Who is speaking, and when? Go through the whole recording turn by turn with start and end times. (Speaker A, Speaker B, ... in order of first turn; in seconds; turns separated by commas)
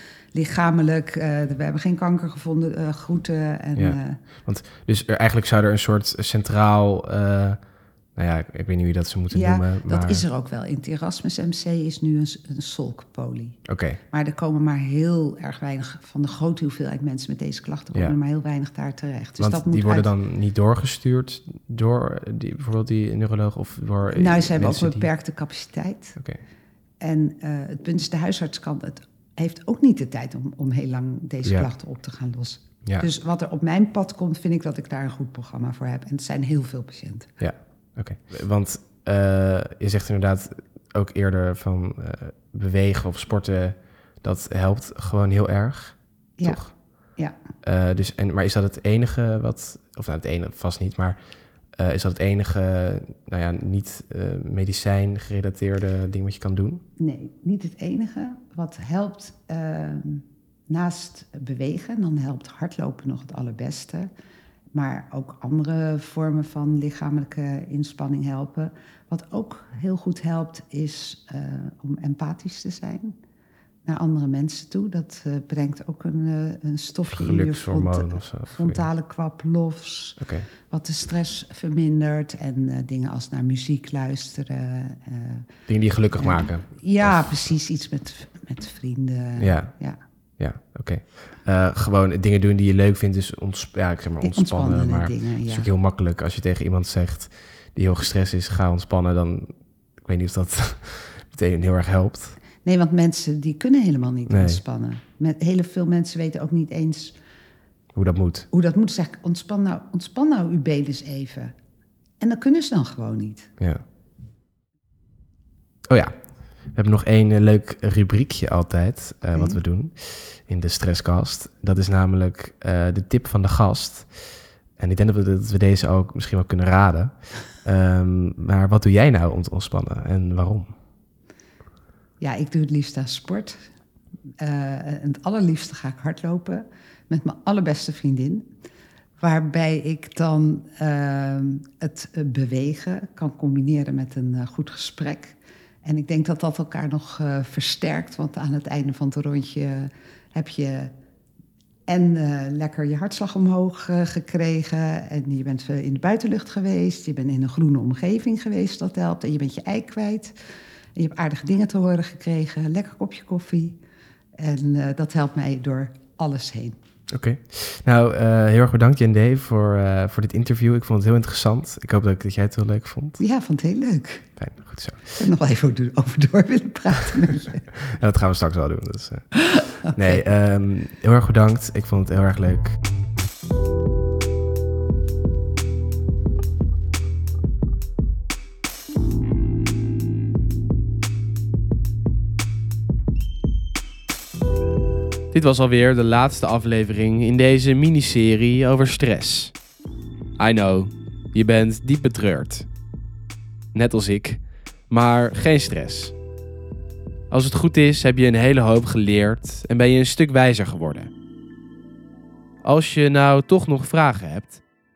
Speaker A: 0.3-4.2, Speaker B: 3.8-10.2, Speaker A: 9.3-20.1, Speaker B: 13.7-14.0, Speaker B: 19.4-25.1, Speaker A: 24.1-26.2, Speaker A: 27.0-37.4, Speaker B: 37.4-47.1, Speaker A: 46.4-47.4, Speaker B: 47.6-56.8, Speaker A: 57.0-64.1, Speaker A: 64.7-73.1, Speaker A: 73.8-85.5, Speaker B: 77.1-78.8, Speaker B: 80.2-80.5, Speaker B: 85.7-87.5, Speaker A: 86.1-90.0, Speaker B: 89.4-102.4, Speaker A: 94.2-95.7, Speaker A: 102.6-107.2, Speaker B: 104.3-104.6, Speaker B: 107.9-108.5, Speaker A: 108.5-111.5, Speaker A: 112.2-113.5, Speaker B: 115.9-130.7, Speaker A: 119.3-119.6, Speaker A: 132.2-133.6, Speaker A: 134.4-138.4, Speaker A: 139.2-150.9, Speaker A: 151.9-160.3, Speaker A: 160.9-163.8, Speaker A: 164.4-166.8, Speaker B: 167.1-173.2, Speaker A: 173.2-174.4, Speaker B: 174.4-175.2, Speaker A: 175.2-177.7, Speaker B: 177.8-182.8, Speaker A: 179.3-180.2, Speaker B: 195.3-199.5, Speaker B: 200.4-202.7, Speaker B: 203.7-206.1, Speaker B: 207.3-211.1, Speaker B: 212.6-214.6